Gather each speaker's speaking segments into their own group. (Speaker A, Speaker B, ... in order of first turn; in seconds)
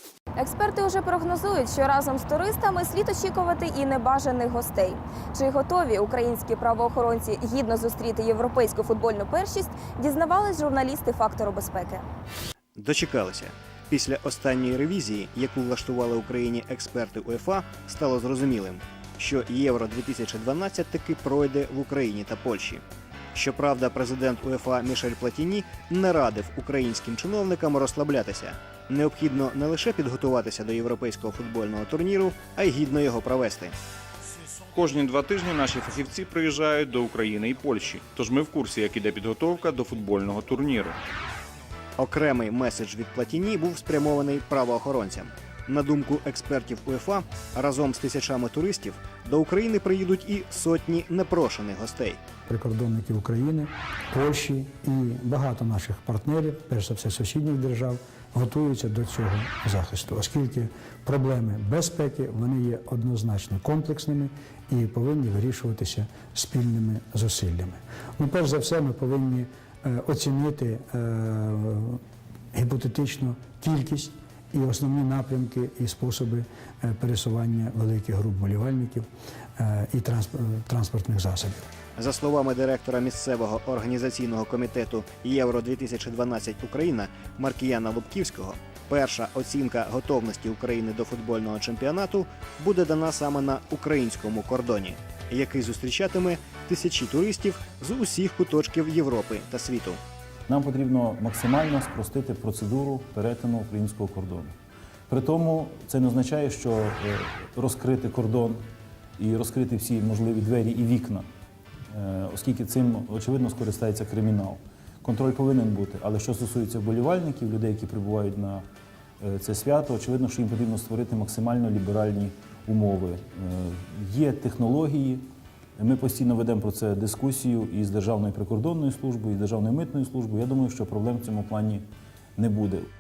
Speaker A: 0.4-12.0
Speaker B: 12.8-22.8, 23.4-33.8, 42.0-52.2, 82.0-100.0
Speaker C: 34.7-41.0
Speaker D: 52.5-72.0, 72.5-81.7
Speaker E: 100.5-104.5, 105.1-108.7, 109.2-111.3, 111.9-118.7, 119.2-125.3, 125.8-132.9